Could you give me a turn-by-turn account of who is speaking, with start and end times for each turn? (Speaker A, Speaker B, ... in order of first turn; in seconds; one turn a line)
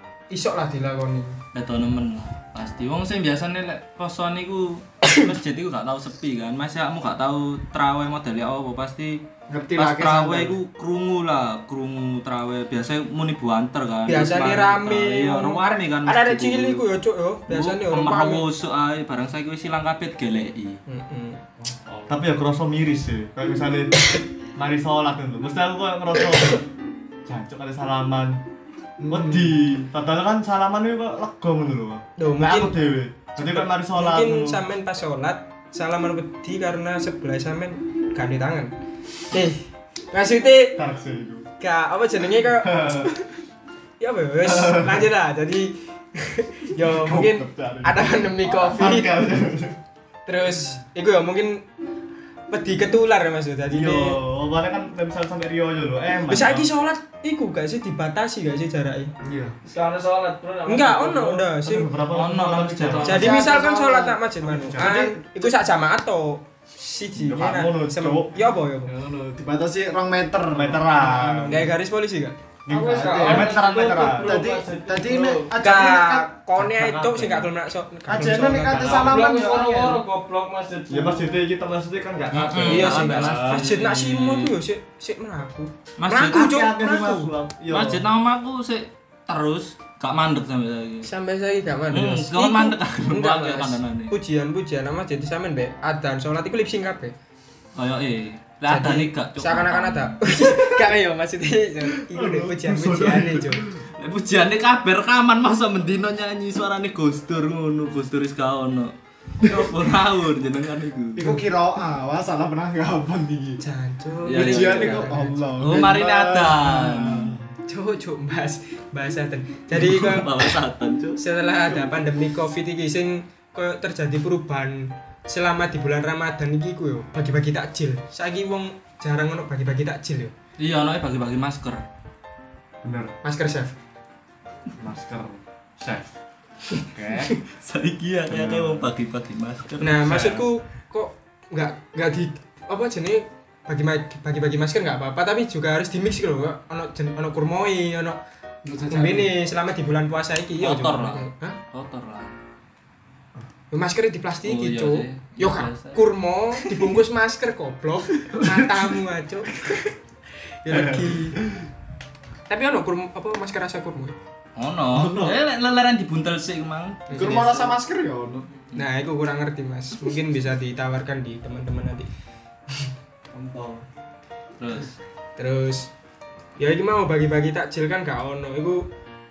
Speaker A: 0.3-1.4
Speaker B: 1.5-9.2
Speaker C: 9.5-10.6
Speaker B: 9.8-16.8
Speaker A: 14.1-18.5
Speaker B: 17.5-20.8
Speaker A: 20.9-21.4
Speaker D: 22.1-24.0
Speaker D: 24.6-26.7
Speaker D: 27.3-28.4
Speaker C: 29.0-29.5
Speaker D: 29.1-34.6
Speaker A: 32.2-32.8
Speaker A: 33.4-38.7
Speaker A: 39.3-40.8
Speaker D: 40.8-41.5
Speaker A: 41.6-43.1
Speaker D: 42.7-43.1
Speaker A: 44.0-49.3
Speaker D: 46.8-49.8
Speaker A: 50.3-51.6
Speaker A: 52.5-54.2
Speaker D: 53.7-56.7
Speaker A: 56.3-59.1
Speaker E: 59.7-61.5
Speaker A: 60.7-61.9
Speaker D: 61.6-63.5
Speaker B: 62.1-63.5
Speaker A: 63.0-68.9
Speaker C: 63.4-64.2
Speaker D: 64.4-65.1
Speaker C: 64.7-65.1
Speaker D: 67.2-68.3
Speaker C: 68.9-71.7
Speaker D: 70.5-71.7
Speaker A: 71.5-72.4
Speaker D: 72.7-74.5
Speaker C: 72.7-73.6
Speaker E: 72.9-75.5
Speaker C: 74.2-76.3
Speaker A: 75.6-79.1
Speaker D: 76.6-77.5
Speaker C: 78.1-80.0
Speaker E: 78.8-81.2
Speaker D: 80.9-83.6
Speaker B: 82.3-84.5
Speaker A: 82.6-87.3
Speaker B: 86.0-86.6
Speaker D: 86.3-88.1
Speaker B: 87.7-91.1
Speaker A: 91.0-97.1
Speaker B: 91.9-94.1
Speaker B: 97.8-100.2
Speaker A: 98.7-103.7
Speaker D: 102.1-103.8
Speaker B: 104.0-111.3
Speaker C: 111.2-113.6
Speaker A: 113.6-115.4
Speaker B: 114.3-117.3
Speaker C: 114.3-117.5
Speaker A: 117.7-120.5
Speaker B: 119.7-121.2
Speaker A: 121.2-130.3
Speaker B: 130.6-131.8
Speaker D: 132.8-133.1
Speaker A: 133.2-133.8
Speaker D: 134.8-136.1
Speaker D: 136.9-137.4
Speaker B: 136.9-140.1
Speaker D: 138.3-138.9
Speaker A: 139.8-148.2
Speaker D: 140.0-140.4
Speaker C: 148.6-149.3
Speaker A: 148.9-151.6
Speaker B: 150.6-152.4
Speaker A: 153.7-159.9
Speaker B: 154.4-156.0
Speaker A: 160.6-161.4
Speaker D: 160.7-161.7
Speaker A: 162.5-164.2
Speaker B: 164.6-167.8
Speaker A: 167.1-167.4
Speaker C: 167.1-168.5
Speaker A: 168.8-172.1
Speaker D: 173.3-173.8
Speaker B: 174.6-174.9
Speaker A: 175.4-175.9
Speaker A: 176.6-178.8